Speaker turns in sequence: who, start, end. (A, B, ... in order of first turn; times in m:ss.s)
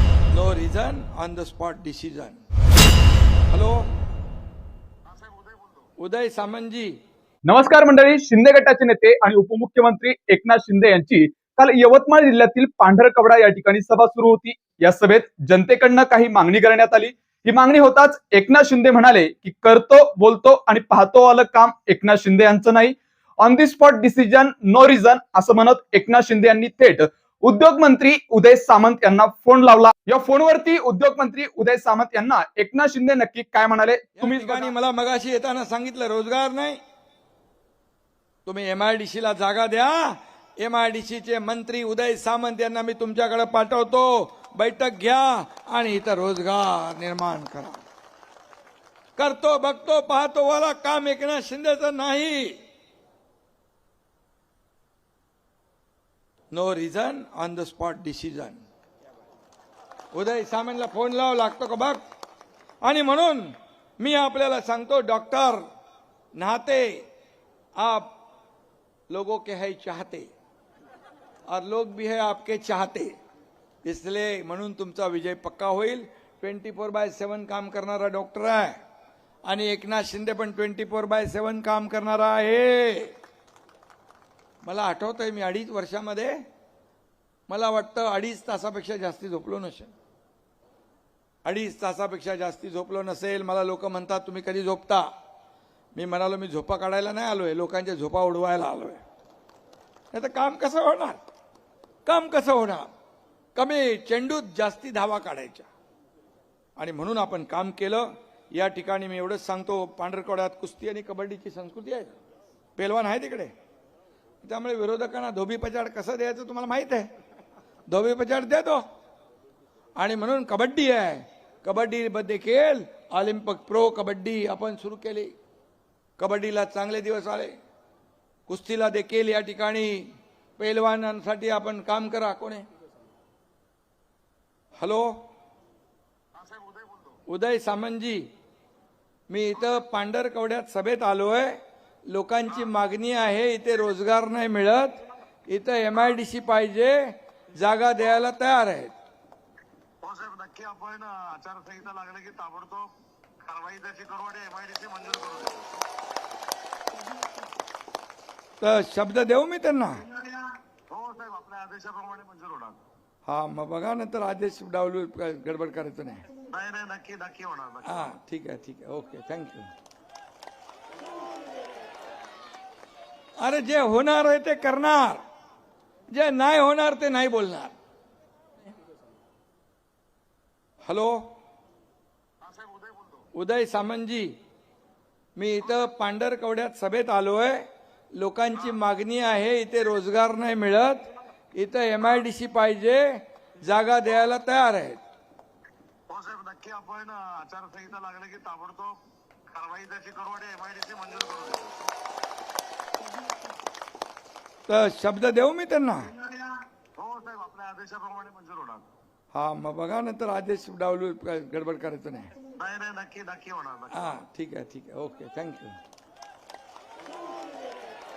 0:00.3-0:02.4 A
0:03.5-0:03.9 A
0:05.0-0:05.9 B
0:06.0-0:07.0 A
0:07.4-0:34.7 C
0:34.2-0:36.8 A
0:38.4-0:47.8 A
0:49.2-0:52.6 A
0:56.5-0:58.6 A
1:00.1-1:02.0 A
1:02.8-1:05.6 A
1:06.3-1:07.0 A
1:07.8-1:08.1 A
1:09.1-1:10.3 A
1:11.5-1:13.2 A
1:13.8-1:18.8 A
1:19.4-1:23.1 A
1:24.6-1:26.4 A
1:27.5-1:29.9 A
1:31.4-1:35.1 A
1:35.9-1:39.0 A
1:40.1-1:41.2 A
1:42.0-1:42.9 A
1:43.6-1:45.7 A
1:46.8-1:52.2 A
1:52.8-1:53.5 A
1:54.4-1:57.1 A
1:57.9-1:58.8 A
2:00.0-2:05.3 A
2:06.2-2:07.5 A
2:08.5-2:12.7 A
2:14.8-2:15.2 A
2:16.3-2:17.2 B
2:17.3-2:18.3 A
2:19.3-2:28.9 A
2:30.0-2:32.9 B
2:33.4-2:35.8 B
2:38.6-2:40.0 A
2:40.1-2:42.8 B
2:43.2-2:46.3 A
2:46.5-2:48.1 B
2:47.8-2:49.7 A
2:53.4-2:55.2 A
2:56.1-2:57.8 A
3:00.8-3:01.3 A
3:02.4-3:03.3 B
3:03.3-3:04.3 A
3:05.4-3:07.7 A
3:08.2-3:15.0 A
3:16.1-3:21.8 B
3:24.7-3:26.1 A
3:26.2-3:28.9 B
3:29.3-3:32.3 A
3:32.6-3:34.2 B
3:33.9-3:35.8 A